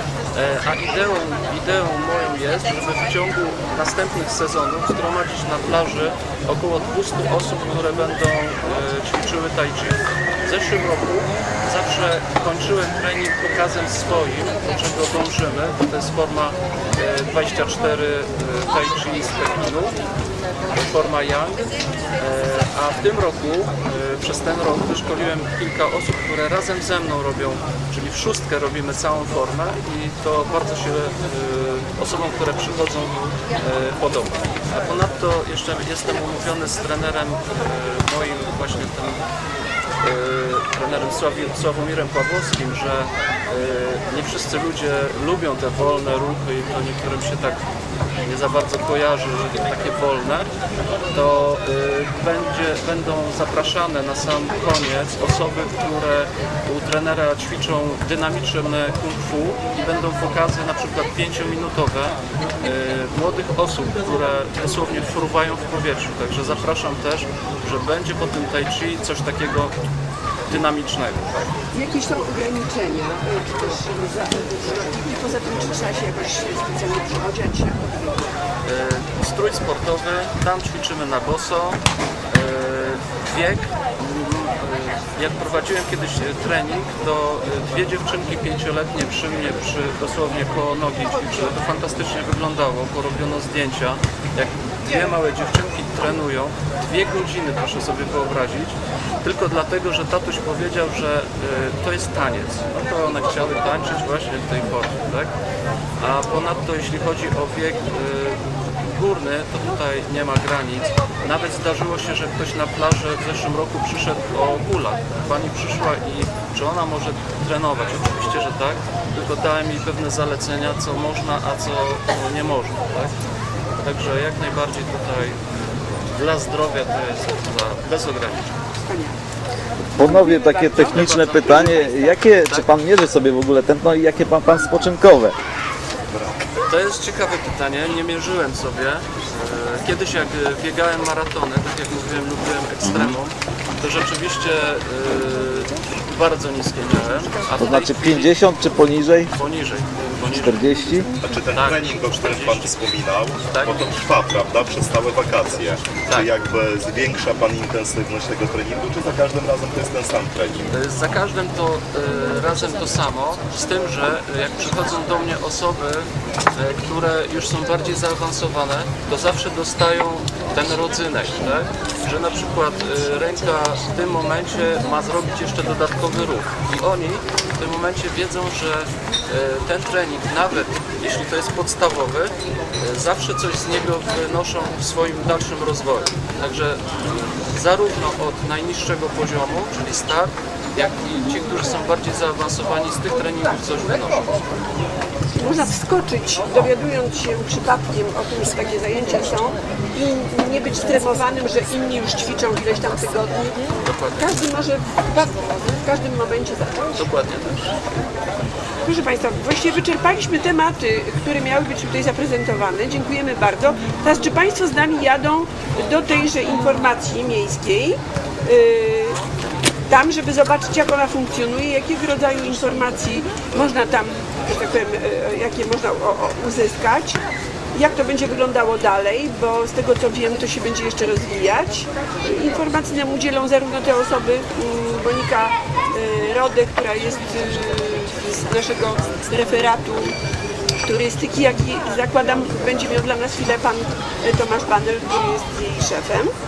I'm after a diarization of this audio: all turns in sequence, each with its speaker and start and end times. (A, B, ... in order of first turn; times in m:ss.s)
0:00.3-0:20.0 A
0:20.7-0:39.2 A
0:40.0-0:47.6 A
0:48.2-0:50.5 A
0:51.1-1:09.8 A
1:10.5-1:11.5 A
1:11.7-1:18.2 B
1:18.6-1:45.3 A
1:46.0-2:03.1 A
2:03.8-2:05.4 A
2:06.1-2:08.6 A
2:08.8-2:09.2 B
2:09.8-2:15.4 C
2:10.0-2:12.2 B
2:10.7-2:12.7 A
2:16.7-2:28.4 A
2:22.8-2:23.2 C
2:27.6-2:29.3 C
2:29.3-2:32.8 A
2:30.2-2:31.1 C
2:31.2-2:40.7 D
2:33.5-2:34.0 A
2:36.0-2:36.3 A
2:40.7-3:14.5 A
3:15.3-3:27.1 B
3:23.8-3:24.6 A
3:26.9-3:27.7 A
3:28.8-3:39.2 B
3:39.9-3:47.2 B
3:47.7-4:00.2 B
4:00.8-4:06.3 B